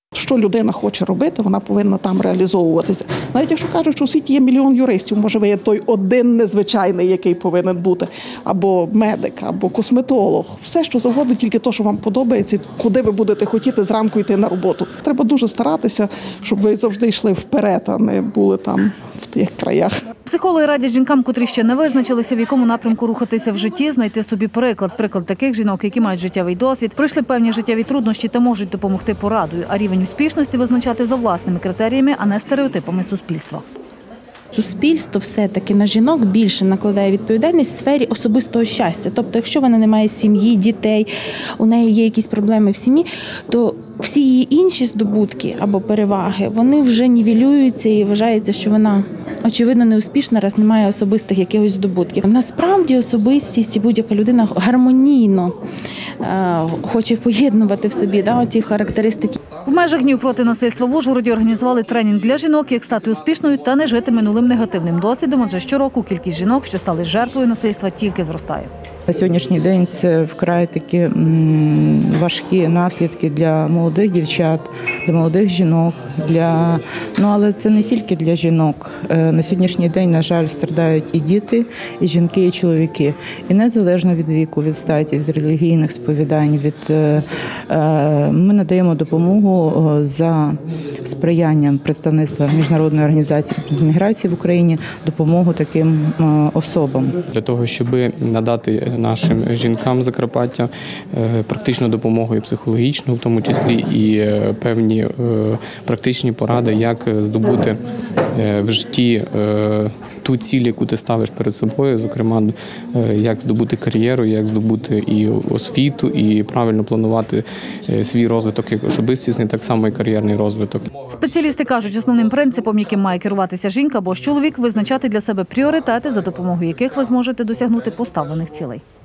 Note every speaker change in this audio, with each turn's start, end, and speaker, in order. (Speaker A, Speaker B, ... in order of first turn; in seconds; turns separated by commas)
Speaker A: 0.1-19.9, Speaker B: 20.3-33.6, Speaker C: 34.5-55.6, Speaker C: 56.2-59.4, Speaker B: 59.6-68.7, Speaker D: 69.1-97.2, Speaker E: 97.3-107.8, Speaker E: 108.3-120.9, Speaker B: 121.1-128.8